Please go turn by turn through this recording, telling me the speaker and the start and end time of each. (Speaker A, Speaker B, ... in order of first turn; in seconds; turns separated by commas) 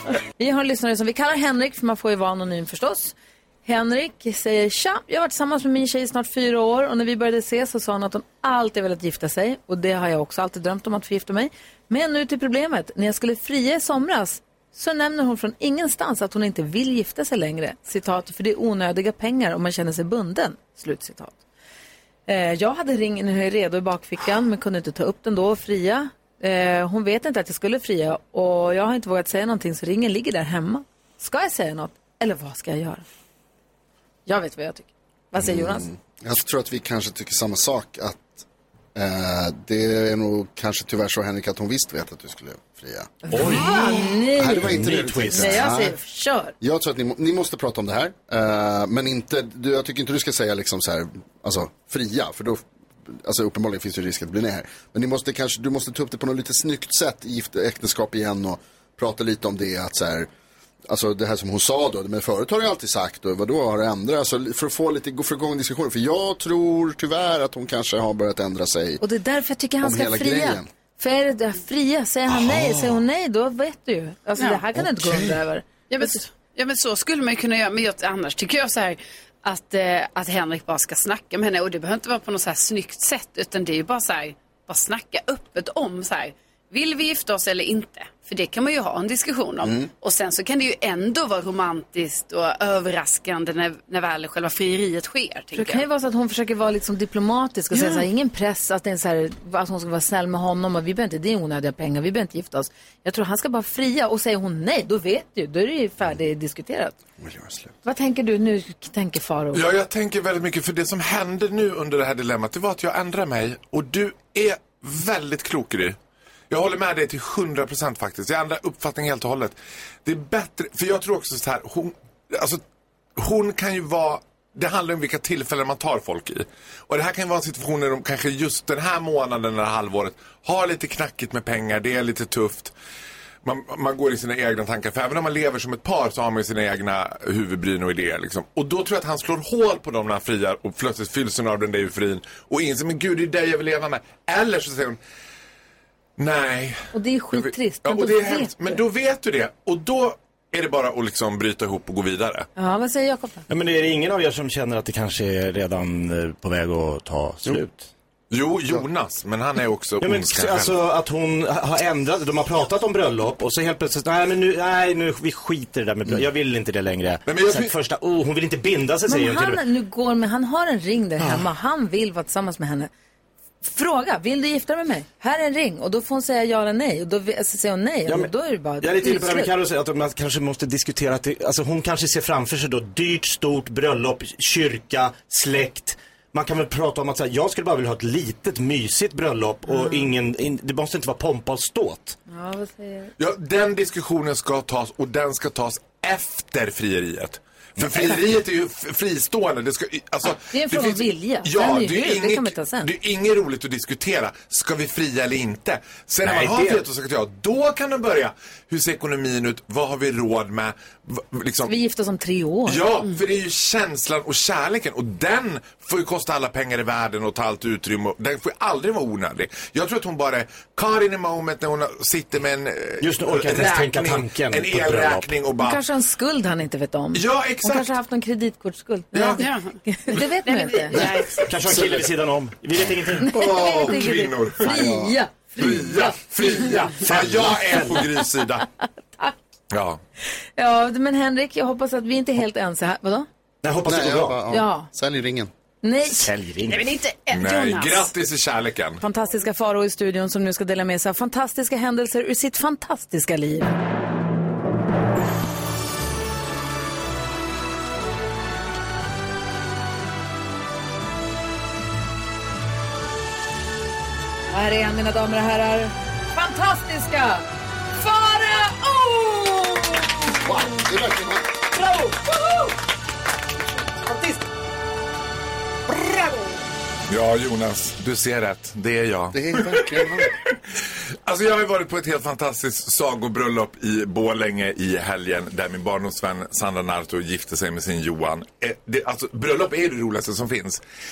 Speaker A: 0.4-3.1, Speaker A: 3.6-21.3, Speaker A: 22.3-33.0, Speaker A: 34.3-35.9, Speaker B: 35.4-43.2, Speaker A: 43.2-46.5, Speaker C: 43.3-45.7, Speaker B: 44.4-45.9, Speaker B: 46.6-60.3, Speaker B: 60.9-69.0, Speaker A: 69.0-76.2, Speaker B: 69.8-70.7, Speaker B: 74.8-75.3, Speaker D: 75.9-95.8, Speaker A: 95.5-107.0, Speaker B: 107.2-107.7, Speaker A: 107.8-109.6, Speaker E: 109.5-116.0, Speaker E: 116.5-122.6, Speaker E: 123.2-132.7, Speaker E: 133.4-145.0, Speaker E: 146.2-146.8, Speaker A: 146.9-148.8, Speaker E: 147.3-152.5, Speaker A: 152.6-153.4, Speaker C: 153.5-157.9, Speaker E: 158.3-160.8, Speaker C: 160.0-169.6, Speaker E: 167.2-167.7, Speaker A: 169.1-172.9, Speaker A: 173.6-179.5, Speaker C: 178.1-192.2, Speaker A: 189.7-190.1, Speaker A: 192.3-193.1, Speaker E: 193.2-211.7, Speaker A: 200.5-202.9, Speaker C: 206.2-206.8, Speaker A: 211.7-212.9, Speaker E: 212.7-225.8, Speaker C: 223.0-225.3, Speaker A: 225.6-231.0, Speaker E: 227.1-227.9, Speaker E: 229.1-229.4, Speaker D: 229.4-229.7, Speaker D: 230.4-231.5, Speaker C: 231.5-233.3, Speaker B: 231.7-232.0, Speaker E: 233.2-234.9, Speaker A: 233.2-236.2, Speaker B: 234.7-235.2, Speaker E: 235.6-238.7, Speaker C: 237.1-238.0, Speaker E: 239.7-240.0, Speaker A: 240.6-243.3, Speaker C: 243.6-244.4, Speaker B: 243.8-245.5, Speaker A: 244.5-244.9, Speaker A: 245.8-246.3, Speaker C: 246.2-246.9, Speaker D: 246.7-248.1, Speaker E: 247.3-249.0, Speaker A: 249.0-253.7, Speaker A: 264.5-267.4, Speaker A: 268.0-270.5, Speaker B: 270.4-271.5, Speaker A: 271.7-272.7, Speaker A: 274.1-274.4, Speaker E: 277.1-280.5, Speaker B: 279.3-280.3, Speaker E: 281.2-290.8